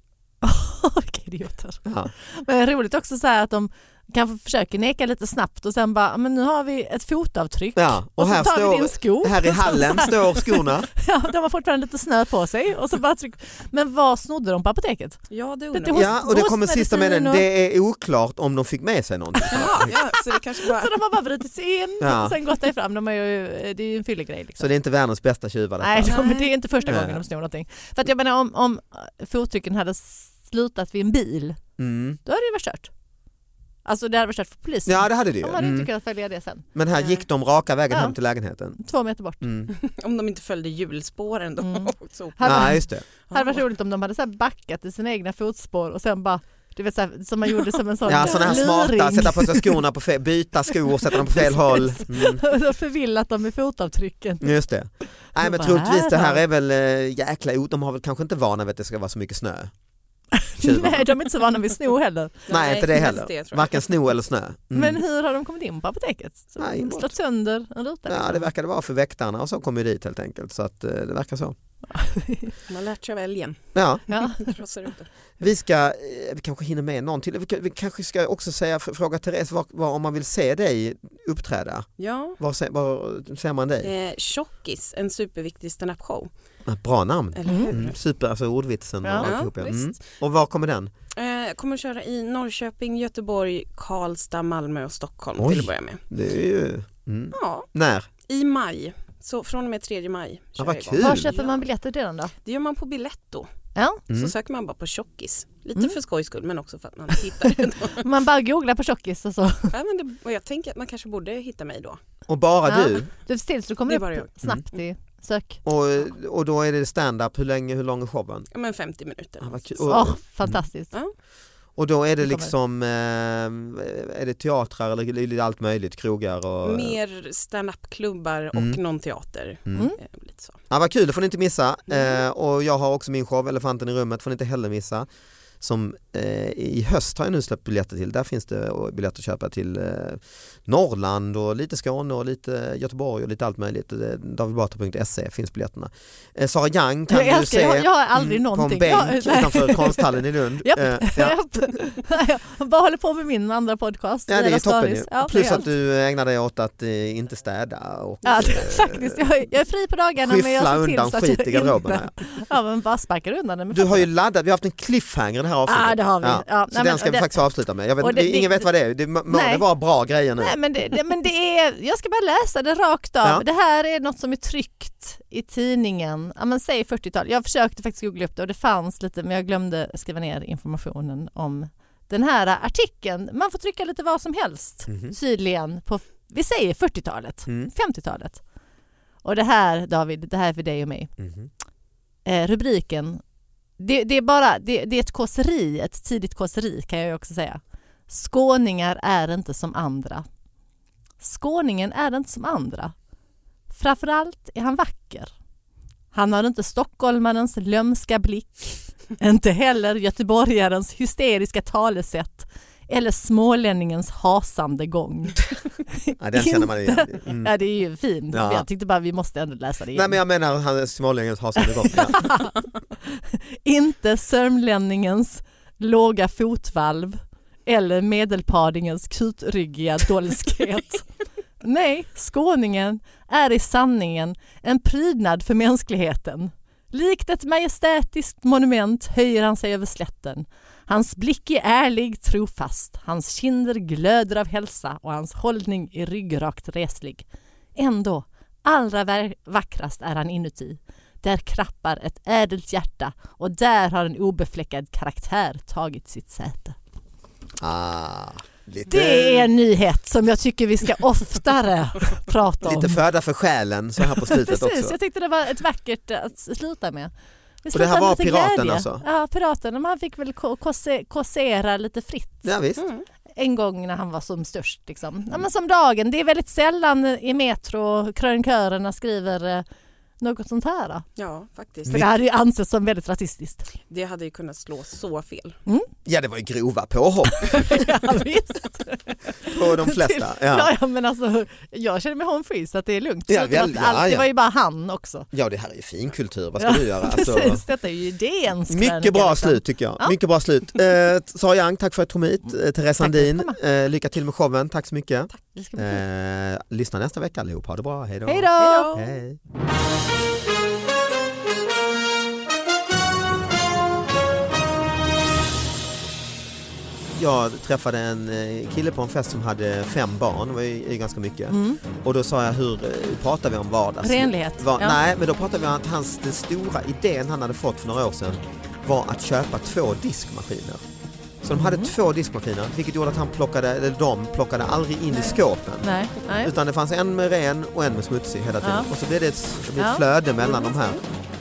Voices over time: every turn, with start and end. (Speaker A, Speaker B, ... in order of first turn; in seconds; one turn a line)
Speaker A: 0.4-17.4
Speaker B: 1.8-2.1
Speaker B: 7.8-10.9
Speaker C: 15.3-16.1
Speaker B: 15.9-20.0
Speaker A: 19.4-20.0
Speaker C: 19.5-21.0
Speaker A: 20.6-24.7
Speaker B: 22.0-22.4
Speaker B: 24.6-26.2
Speaker A: 25.8-31.6
Speaker C: 26.0-26.5
Speaker B: 26.9-27.2
Speaker B: 31.8-32.2
Speaker A: 32.2-32.9
Speaker A: 33.8-36.6
Speaker B: 34.9-35.9
Speaker B: 36.7-38.8
Speaker C: 37.0-37.2
Speaker A: 37.9-38.1
Speaker A: 38.8-39.4
Speaker B: 39.4-39.7
Speaker C: 39.7-43.6
Speaker A: 41.6-49.8
Speaker B: 42.4-43.0
Speaker B: 48.0-52.4
Speaker A: 51.1-54.6
Speaker B: 54.4-59.7
Speaker A: 55.3-56.4
Speaker A: 60.3-62.5
Speaker B: 60.6-61.1
Speaker C: 62.5-63.9
Speaker B: 62.5-65.0
Speaker A: 64.7-68.5
Speaker B: 66.6-67.1
Speaker B: 68.1-71.5
Speaker A: 71.9-72.5
Speaker C: 72.7-75.1
Speaker B: 73.7-74.0
Speaker A: 74.1-74.5
Speaker B: 75.4-81.9
Speaker C: 82.0-82.4
Speaker B: 82.4-83.9
Speaker C: 83.8-86.3
Speaker B: 86.7-90.9
Speaker C: 87.3-88.0
Speaker A: 87.5-87.7
Speaker A: 89.0-89.3
Speaker C: 89.2-90.0
Speaker C: 91.1-96.0
Speaker B: 95.4-98.1
Speaker C: 97.3-97.7
Speaker C: 98.2-101.6
Speaker B: 100.6-101.3
Speaker A: 101.0-102.3
Speaker C: 102.4-103.5
Speaker A: 103.7-104.0
Speaker B: 104.1-104.3
Speaker C: 104.1-108.0
Speaker A: 107.5-109.7
Speaker C: 109.7-112.0
Speaker B: 112.3-113.1
Speaker A: 112.7-115.6
Speaker C: 113.9-114.3
Speaker B: 115.6-118.5
Speaker C: 118.5-120.0
Speaker B: 119.4-120.6
Speaker A: 119.9-120.9
Speaker B: 121.8-127.0
Speaker A: 122.2-122.5
Speaker C: 126.6-130.6
Speaker B: 128.5-128.8
Speaker B: 130.7-135.1
Speaker B: 135.6-151.4
Speaker A: 147.1-155.7
Speaker B: 154.3-159.2
Speaker A: 158.2-164.1
Speaker B: 160.2-162.1
Speaker B: 163.7-170.6
Speaker A: 165.7-167.4
Speaker A: 168.0-168.7
Speaker A: 169.3-169.6
Speaker A: 170.4-188.4
Speaker B: 184.9-185.2
Speaker B: 187.5-187.7
Speaker A: 189.2-191.1
Speaker B: 191.2-191.5
Speaker A: 192.2-193.2
Speaker A: 193.8-200.3
Speaker A: 201.2-202.9
Speaker A: 203.7-205.3
Speaker A: 206.1-220.2
Speaker B: 216.2-217.5
Speaker B: 218.3-218.7
Speaker B: 219.9-222.3
Speaker A: 221.7-231.1
Speaker A: 231.6-256.8
Speaker B: 257.6-259.5
Speaker A: 258.9-263.0
Speaker B: 262.6-265.0
Speaker A: 264.1-267.1
Speaker A: 267.6-272.5
Speaker B: 267.7-269.0
Speaker B: 272.4-272.8
Speaker C: 272.8-273.0
Speaker A: 273.4-279.6
Speaker A: 280.2-281.1
Speaker C: 281.2-282.1
Speaker A: 281.9-283.7
Speaker C: 283.9-285.6
Speaker B: 286.1-287.9
Speaker A: 287.3-295.3
Speaker B: 289.4-290.7
Speaker B: 293.3-294.3
Speaker B: 295.3-297.6
Speaker A: 296.6-300.1
Speaker B: 298.7-309.4
Speaker A: 303.0-303.6
Speaker A: 305.5-306.0
Speaker A: 308.2-308.9
Speaker C: 308.6-309.1
Speaker B: 317.1-330.8
Speaker A: 321.5-321.8
Speaker A: 324.0-325.0
Speaker B: 331.4-335.9
Speaker A: 331.5-331.9
Speaker A: 335.8-336.5
Speaker B: 336.4-341.0
Speaker A: 338.6-338.9
Speaker A: 339.8-340.7